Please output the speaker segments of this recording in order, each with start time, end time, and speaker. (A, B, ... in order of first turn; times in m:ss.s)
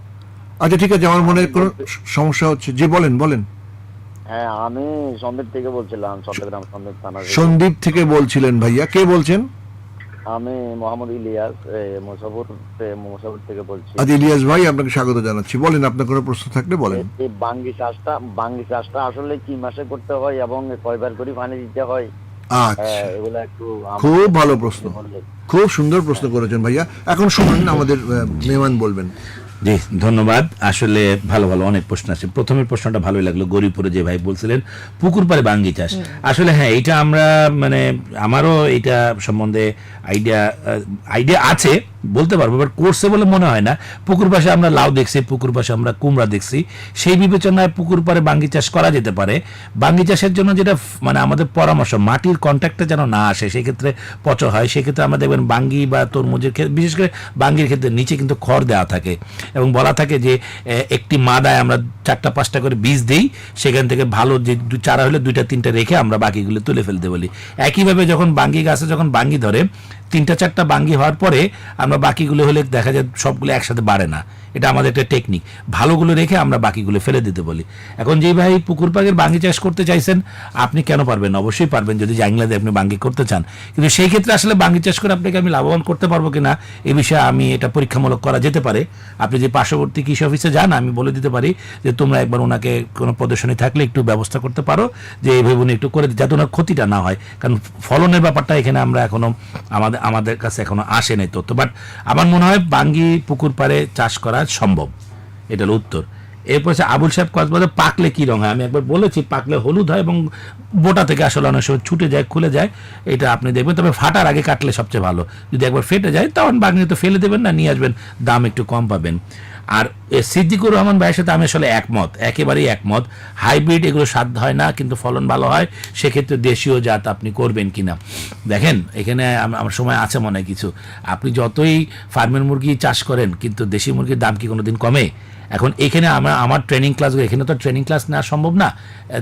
0:00.6-0:03.5 A
0:04.3-0:07.6 B
0:07.2-0:09.5 A
0:10.3-0:14.1 B
0:14.0-0:17.1 A
0:16.9-0:22.1 B
0:22.5-0:23.1 A
0:22.8-0:25.2 B
0:24.0-0:25.0 A
0:25.5-0:29.1 A
0:29.6-1:00.4 C
1:00.9-1:44.9 C
1:45.5-1:50.2 C
1:50.8-1:59.2 C
1:59.8-2:08.0 C
2:08.5-2:18.7 C